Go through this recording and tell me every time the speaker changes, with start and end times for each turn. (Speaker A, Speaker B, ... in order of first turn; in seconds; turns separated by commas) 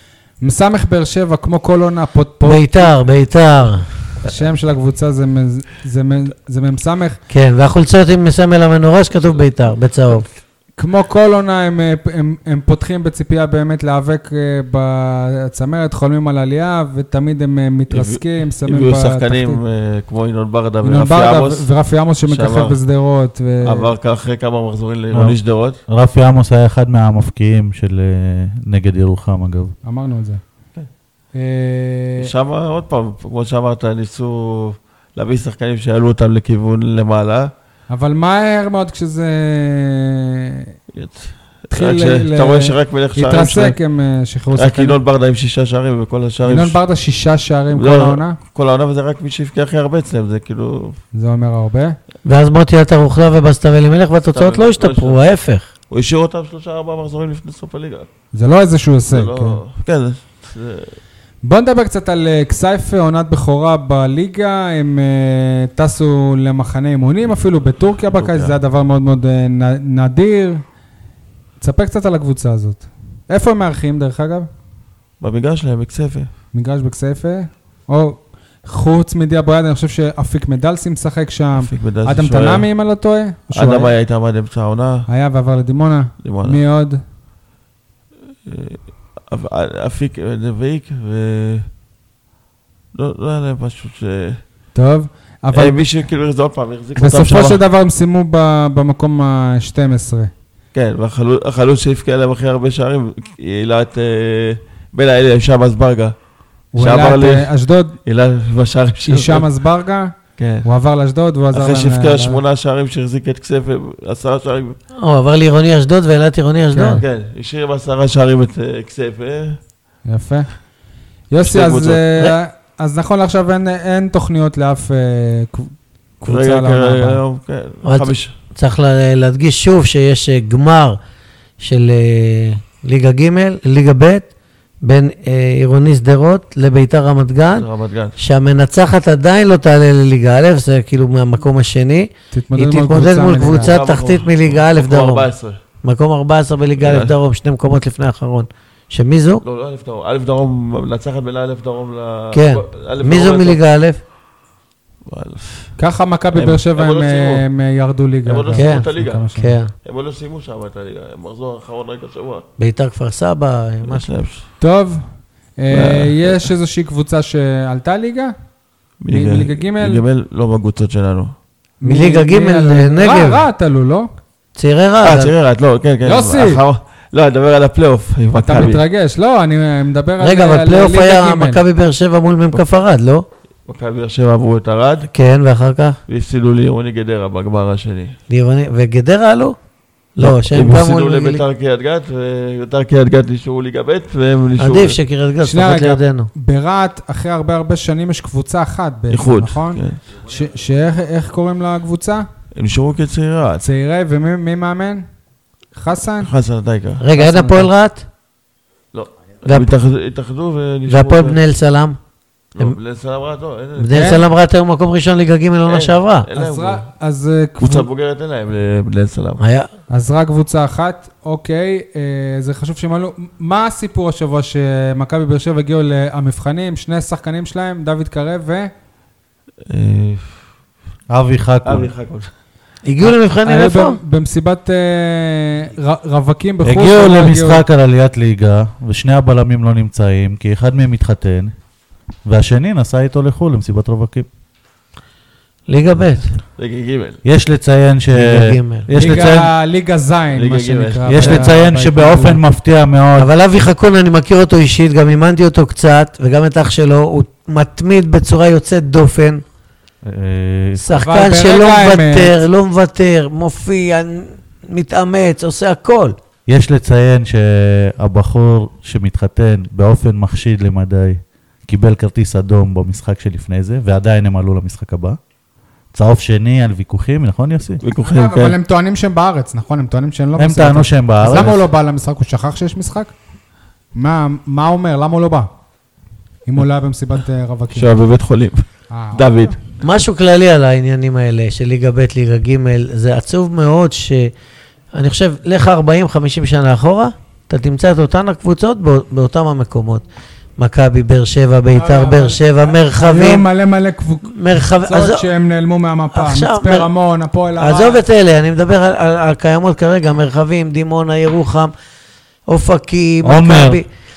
Speaker A: 0.4-3.0, Speaker B: 2.4-3.9, Speaker A: 4.2-7.2, Speaker B: 7.3-10.3, Speaker A: 10.8-19.6, Speaker C: 17.9-21.7, Speaker A: 20.8-23.9, Speaker C: 22.2-22.8, Speaker C: 23.6-25.8, Speaker D: 25.1-29.7, Speaker A: 29.8-30.4, Speaker A: 31.3-32.3, Speaker C: 32.2-37.5, Speaker A: 37.9-40.7, Speaker C: 40.9-43.8, Speaker A: 41.7-45.0, Speaker C: 44.5-46.8, Speaker A: 46.5-48.4, Speaker C: 47.7-51.0, Speaker A: 51.1-52.0, Speaker B: 52.2-55.7, Speaker C: 54.3-55.2, Speaker C: 55.9-58.1, Speaker A: 58.3-59.6, Speaker C: 59.1-61.0, Speaker A: 61.4-70.6, Speaker C: 68.1-68.6, Speaker A: 71.6-74.5, Speaker C: 75.2-76.3, Speaker A: 76.5-83.9, Speaker C: 81.6-82.7, Speaker C: 83.5-85.1, Speaker A: 85.1-87.0, Speaker C: 86.2-86.6, Speaker C: 88.5-91.7, Speaker C: 92.9-94.4, Speaker A: 94.8-95.8, Speaker C: 95.5-97.6, Speaker A: 97.0-100.3, Speaker C: 100.7-106.1, Speaker A: 106.7-108.0, Speaker C: 106.8-107.5, Speaker C: 108.0-109.5, Speaker A: 109.0-112.4, Speaker C: 110.4-110.7, Speaker C: 111.5-114.8, Speaker B: 115.0-117.0, Speaker A: 116.7-117.0, Speaker C: 117.0-119.6, Speaker A: 120.1-120.5, Speaker A: 121.3-127.2, Speaker C: 121.4-122.1, Speaker C: 126.3-128.4, Speaker B: 127.8-131.0, Speaker B: 131.6-134.3, Speaker B: 134.8-145.3, Speaker C: 137.6-138.2, Speaker A: 142.3-143.8, Speaker C: 143.6-145.6, Speaker B: 145.8-149.4, Speaker C: 146.8-147.1, Speaker C: 149.4-153.6, Speaker B: 152.3-154.0, Speaker C: 155.1-155.7, Speaker A: 155.8-159.6, Speaker C: 156.3-157.4, Speaker C: 158.3-159.3, Speaker B: 158.6-159.7, Speaker C: 159.8-162.4, Speaker B: 162.6-164.1, Speaker C: 163.8-164.5, Speaker A: 164.6-168.3, Speaker C: 165.7-166.5, Speaker C: 169.0-171.3, Speaker A: 169.1-170.0, Speaker A: 171.8-174.1, Speaker B: 171.8-173.4, Speaker B: 174.6-175.3, Speaker C: 175.0-178.8, Speaker A: 176.0-176.6, Speaker A: 178.4-181.6, Speaker B: 180.2-183.3, Speaker C: 183.7-185.1, Speaker B: 185.1-186.0, Speaker C: 186.1-188.2, Speaker B: 188.3-189.6, Speaker B: 190.2-191.4, Speaker C: 190.2-195.0, Speaker B: 194.6-196.3, Speaker A: 195.4-202.3, Speaker C: 199.1-200.0, Speaker C: 202.6-203.7, Speaker A: 203.6-205.1, Speaker A: 205.8-206.3, Speaker C: 206.2-207.0, Speaker B: 207.0-208.1, Speaker A: 207.1-207.7, Speaker C: 208.9-211.4, Speaker B: 209.5-209.7, Speaker B: 210.9-212.0, Speaker C: 212.6-214.3, Speaker B: 213.8-216.3, Speaker A: 213.9-214.2, Speaker C: 215.7-216.8, Speaker A: 216.3-217.9, Speaker C: 217.6-219.4, Speaker B: 219.4-219.7, Speaker A: 219.9-228.7, Speaker C: 229.7-230.4, Speaker D: 231.1-231.9, Speaker C: 231.7-232.3, Speaker B: 232.8-234.0, Speaker A: 233.0-237.6, Speaker D: 236.6-241.5, Speaker D: 242.3-244.3, Speaker B: 245.7-246.4, Speaker C: 246.6-247.2, Speaker D: 247.2-249.5, Speaker B: 248.1-248.9, Speaker A: 248.9-252.4, Speaker C: 250.3-251.4, Speaker D: 251.1-253.3, Speaker B: 253.2-259.4, Speaker D: 260.0-260.9, Speaker B: 260.8-266.2, Speaker A: 260.9-262.4, Speaker D: 266.5-275.2, Speaker D: 275.9-277.8, Speaker C: 277.8-278.6, Speaker A: 278.0-283.1, Speaker D: 280.4-281.7, Speaker A: 283.9-285.5, Speaker A: 286.5-287.9, Speaker C: 287.7-289.6, Speaker A: 288.9-289.4, Speaker B: 289.8-294.3, Speaker B: 294.9-300.0, Speaker B: 300.6-303.4, Speaker A: 301.7-308.0, Speaker B: 304.3-305.3, Speaker B: 306.1-306.9, Speaker B: 307.6-311.7, Speaker B: 312.5-313.9, Speaker D: 313.2-313.8